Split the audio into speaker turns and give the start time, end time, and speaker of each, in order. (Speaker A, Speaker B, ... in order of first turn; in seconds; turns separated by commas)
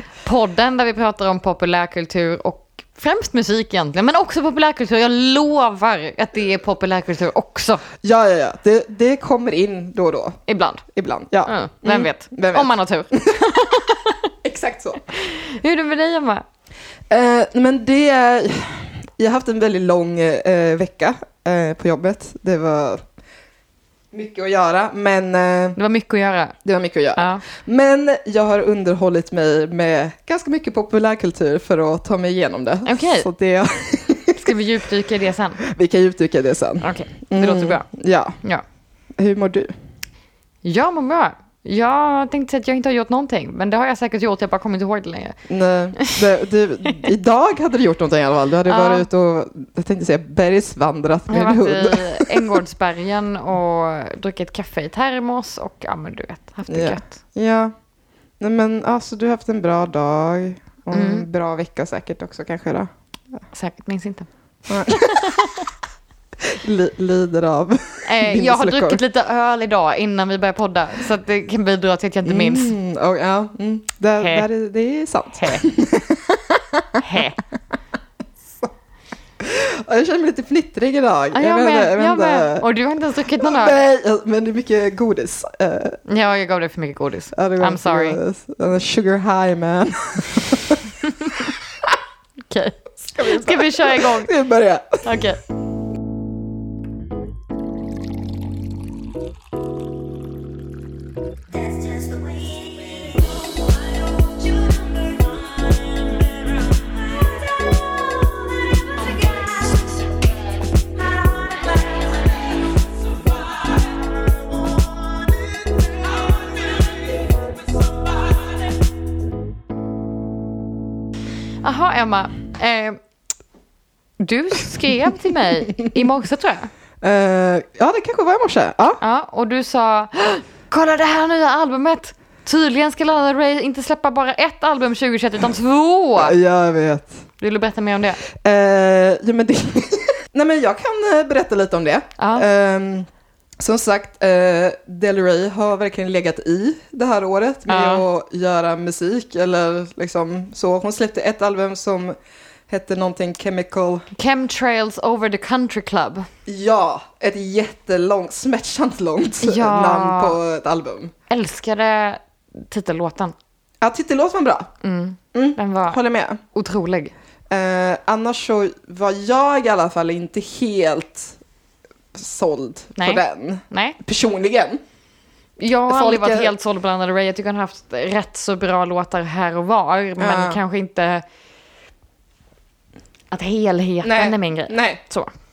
Speaker A: 0.2-7.8, Speaker B: 8.0-13.3, Speaker A: 10.5-10.8, Speaker A: 11.4-14.2, Speaker B: 14.4-15.0, Speaker A: 15.1-16.4, Speaker B: 17.1-23.0, Speaker B: 24.1-25.8, Speaker A: 25.8-26.5, Speaker B: 26.6-34.6, Speaker A: 27.1-27.4, Speaker A: 32.8-33.3, Speaker A: 34.3-35.6, Speaker B: 35.6-38.4, Speaker A: 36.8-37.9, Speaker B: 39.2-39.7, Speaker A: 40.6-45.4, Speaker B: 45.5-52.6, Speaker A: 48.7-49.0, Speaker A: 51.3-57.1, Speaker B: 56.7-57.7, Speaker B: 58.4-63.4, Speaker A: 60.9-61.2, Speaker A: 63.5-64.3, Speaker B: 64.7-65.2, Speaker A: 64.8-65.6, Speaker B: 66.4-69.0, Speaker A: 68.0-72.7, Speaker B: 72.2-77.2, Speaker A: 74.2-74.5, Speaker A: 75.3-75.7, Speaker A: 77.0-77.4, Speaker B: 78.4-78.7, Speaker B: 79.4-82.7, Speaker A: 81.3-83.8, Speaker B: 83.4-86.0, Speaker A: 86.1-88.2, Speaker B: 87.3-90.8, Speaker A: 92.5-94.3, Speaker B: 93.1-95.0, Speaker A: 95.0-95.4, Speaker C: 101.6-109.8, Speaker C: 111.0-112.3, Speaker C: 113.1-113.8, Speaker C: 116.1-117.5, Speaker A: 121.6-123.0, Speaker A: 124.2-126.7, Speaker B: 127.0-129.0, Speaker A: 129.0-136.4, Speaker B: 136.2-137.1, Speaker A: 137.4-138.2, Speaker B: 138.3-143.1, Speaker A: 142.2-142.4, Speaker B: 143.6-152.1, Speaker A: 147.7-148.0, Speaker B: 152.7-154.1, Speaker A: 154.1-156.3, Speaker B: 156.4-161.1, Speaker A: 159.4-160.4, Speaker A: 161.3-163.3, Speaker B: 163.8-164.7, Speaker A: 164.8-166.0, Speaker B: 165.3-166.4, Speaker A: 166.5-167.1, Speaker B: 167.5-171.4, Speaker B: 172.1-174.8, Speaker A: 173.0-174.0, Speaker A: 175.6-181.2, Speaker B: 175.9-176.5, Speaker B: 180.2-180.6, Speaker A: 183.3-185.3, Speaker B: 184.0-185.0